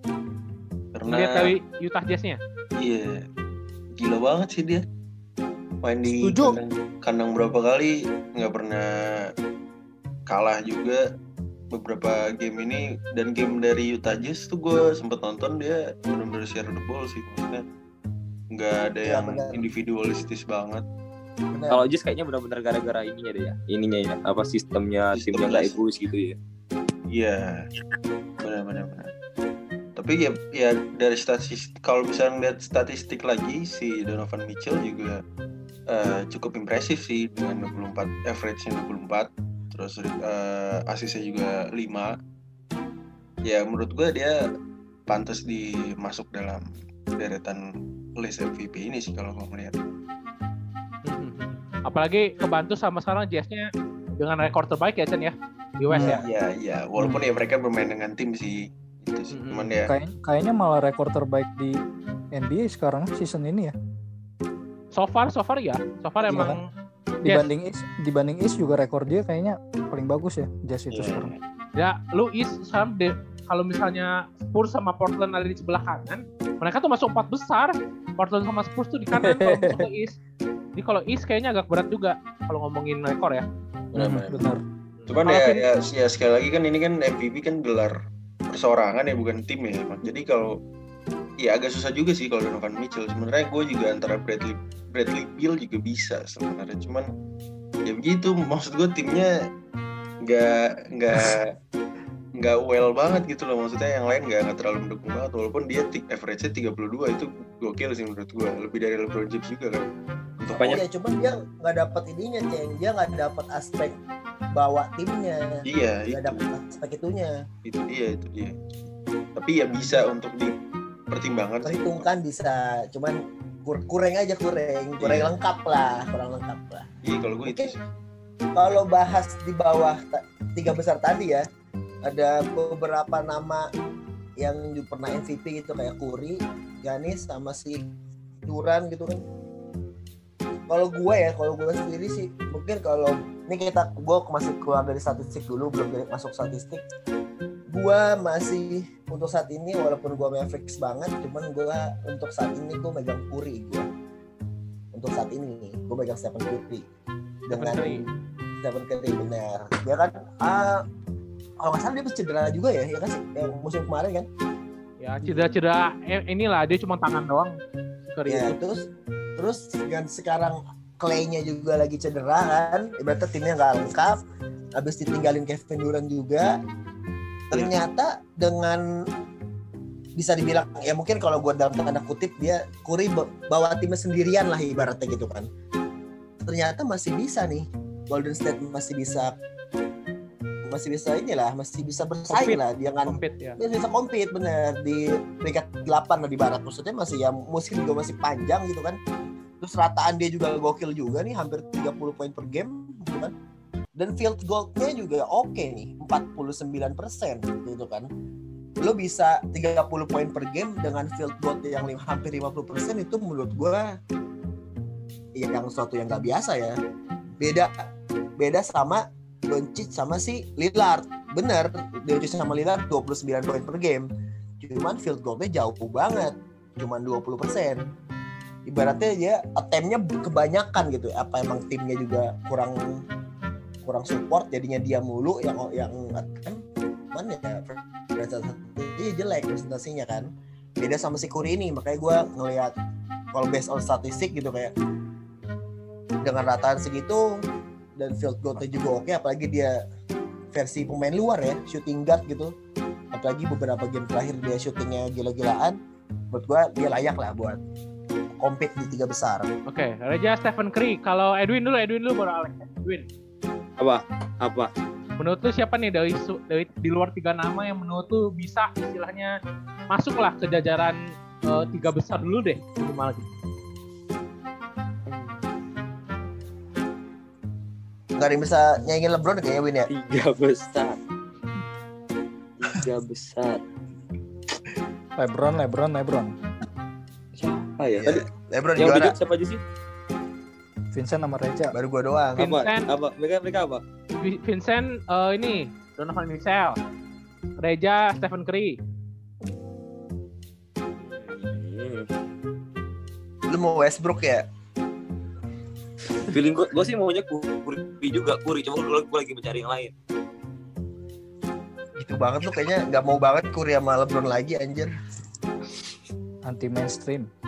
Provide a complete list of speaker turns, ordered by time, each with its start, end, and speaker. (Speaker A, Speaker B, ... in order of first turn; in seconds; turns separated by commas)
Speaker A: 0.9-1.5, Speaker B: 1.1-2.4, Speaker A: 2.8-3.2, Speaker A: 4.0-4.8, Speaker A: 5.8-9.3, Speaker C: 6.2-6.5, Speaker A: 10.3-11.0, Speaker A: 11.7-17.6, Speaker A: 18.5-20.8, Speaker D: 19.0-19.6, Speaker D: 21.5-21.8, Speaker E: 21.7-26.4, Speaker A: 25.1-25.8, Speaker A: 27.1-27.6, Speaker A: 28.4-29.1, Speaker A: 29.9-35.2, Speaker A: 35.9-42.1, Speaker A: 43.4-44.3, Speaker A: 45.1-46.6, Speaker A: 47.1-47.6, Speaker A: 48.2-49.7, Speaker B: 51.0-56.2, Speaker C: 55.9-56.2, Speaker D: 56.0-56.3, Speaker A: 56.1-59.9, Speaker C: 57.0-57.2, Speaker B: 59.3-59.7, Speaker C: 59.8-61.8, Speaker C: 62.3-63.7, Speaker B: 64.9-66.6, Speaker C: 66.2-66.6, Speaker C: 67.2-71.3, Speaker A: 70.9-71.4, Speaker B: 71.8-80.2, Speaker C: 79.1-79.8, Speaker B: 80.8-83.4, Speaker A: 83.9-84.5, Speaker C: 83.9-84.6, Speaker B: 85.0-85.6, Speaker A: 85.1-88.0, Speaker A: 88.5-90.5, Speaker A: 91.4-97.1, Speaker A: 97.8-99.3, Speaker A: 100.2-101.5, Speaker A: 102.4-109.8, Speaker A: 110.4-110.8, Speaker E: 110.5-110.8, Speaker D: 110.6-114.0, Speaker D: 114.5-115.5, Speaker A: 115.7-116.4, Speaker D: 116.0-117.3, Speaker A: 117.6-118.5, Speaker A: 119.3-120.5, Speaker A: 121.1-122.0, Speaker D: 121.6-126.9, Speaker A: 125.0-125.3, Speaker A: 127.0-127.8, Speaker D: 127.4-127.7, Speaker D: 128.6-131.4, Speaker D: 132.1-133.6, Speaker D: 134.4-137.8, Speaker D: 138.4-139.2, Speaker D: 140.7-146.8, Speaker D: 147.7-153.9, Speaker D: 154.9-156.8, Speaker D: 157.5-158.1, Speaker B: 157.5-158.0, Speaker D: 158.6-160.8, Speaker D: 161.6-164.3, Speaker B: 165.0-168.6, Speaker D: 165.2-165.5, Speaker D: 168.3-174.2, Speaker D: 174.8-176.5, Speaker D: 177.5-178.8, Speaker D: 180.2-185.5, Speaker D: 186.4-189.3, Speaker D: 190.7-199.0, Speaker B: 192.3-193.6, Speaker D: 199.6-203.3, Speaker D: 204.0-208.1, Speaker D: 208.8-213.9, Speaker D: 215.3-216.8, Speaker D: 217.4-217.7, Speaker D: 218.4-224.1, Speaker D: 224.6-227.9, Speaker D: 228.7-232.8, Speaker D: 233.8-236.6, Speaker D: 237.1-240.3, Speaker D: 240.8-242.7, Speaker D: 243.3-244.7, Speaker D: 246.2-247.2, Speaker D: 248.0-249.8, Speaker D: 250.5-252.5, Speaker D: 253.1-255.8, Speaker D: 256.3-257.6, Speaker D: 258.4-259.5, Speaker B: 259.7-263.1, Speaker E: 263.8-264.7, Speaker B: 265.2-269.3, Speaker B: 269.9-271.0, Speaker B: 271.5-273.2, Speaker E: 275.1-275.4, Speaker D: 278.2-279.9, Speaker E: 279.9-281.0, Speaker E: 282.6-283.6, Speaker C: 285.2-286.3, Speaker E: 287.3-289.6, Speaker D: 288.0-289.1, Speaker C: 290.9-291.7, Speaker D: 291.7-292.4, Speaker E: 292.4-293.8, Speaker B: 292.4-292.9, Speaker B: 294.2-296.8, Speaker B: 297.6-298.8, Speaker E: 301.0-302.1, Speaker D: 303.5-304.4, Speaker E: 306.2-309.9, Speaker D: 312.0-314.9, Speaker C: 316.5-317.3